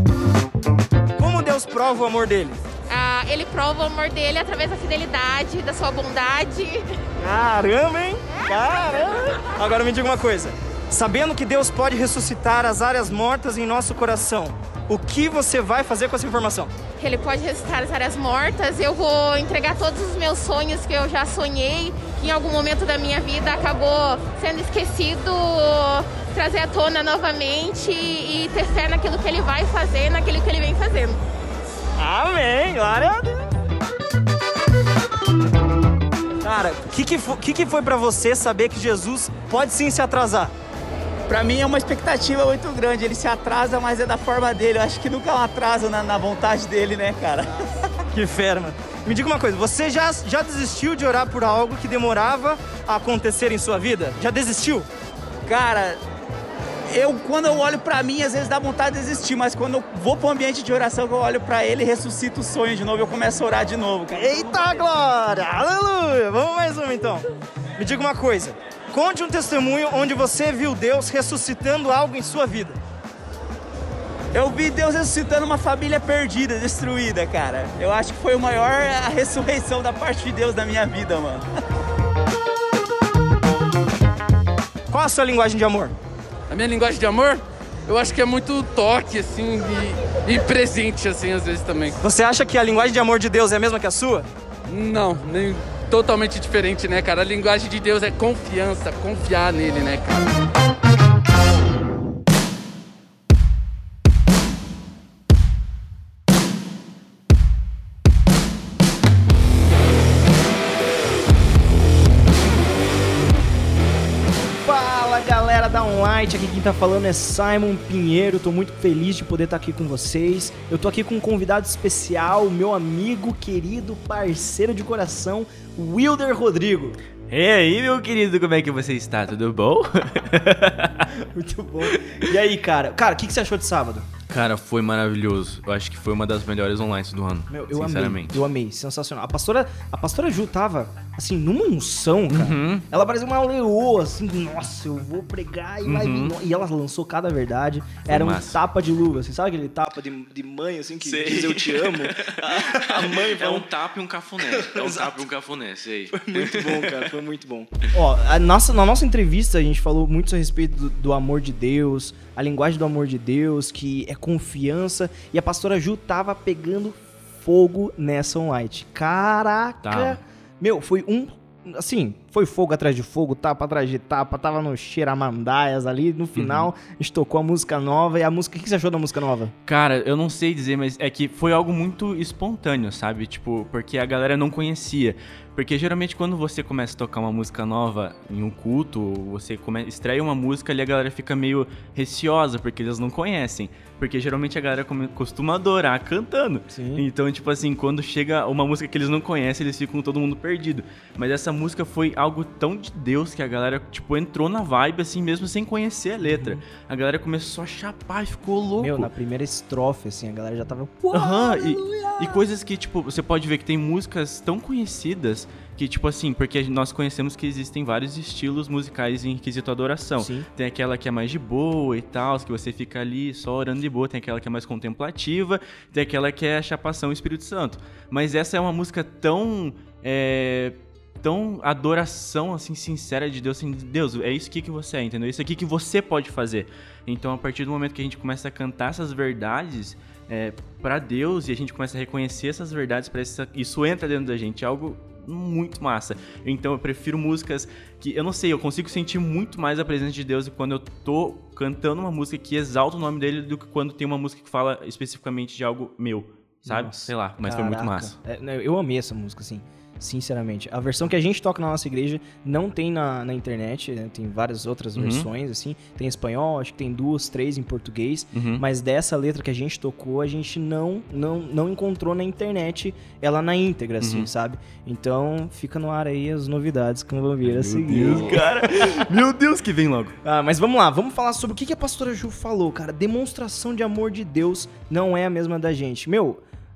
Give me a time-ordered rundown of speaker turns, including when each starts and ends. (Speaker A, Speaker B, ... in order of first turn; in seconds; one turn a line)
Speaker A: 1.2-2.6
Speaker B: 2.9-6.8
Speaker A: 7.2-16.7
Speaker B: 17.0-31.2
Speaker A: 32.0-33.4
Speaker A: 36.4-40.5
Speaker C: 41.3-47.6
Speaker A: 48.1-54.9
Speaker C: 55.5-56.0
Speaker C: 56.9-64.8
Speaker A: 64.1-67.2
Speaker A: 67.8-72.8
Speaker C: 74.3-81.5
Speaker A: 84.9-85.9
Speaker D: 86.5-92.0
Speaker A: 92.0-94.3
Speaker D: 94.7-100.3
Speaker E: 114.6-127.0
Speaker F: 127.3-131.1
Speaker E: 131.2-134.1
Speaker F: 131.9-132.1
Speaker F: 134.3-138.4
Speaker E: 137.5-153.7
Speaker F: 142.3-142.9
Speaker F: 145.8-146.4
Speaker F: 148.1-148.6
Speaker F: 151.0-157.1
Speaker E: 154.4-155.3
Speaker E: 156.1-179.5
Speaker F: 169.8-170.2
Speaker F: 176.3-176.7
Speaker F: 179.7-209.1
Speaker E: 196.7-197.1
Speaker E: 206.2-206.6
Speaker E: 208.8-212.4
Speaker F: 211.1-258.2
Speaker E: 220.2-220.5
Speaker E: 256.6-279.1
Speaker F: 265.0-265.3
Speaker F: 268.3-268.6
Speaker F: 274.0-274.3
Speaker F: 277.4-280.2
Speaker E: 280.2-286.4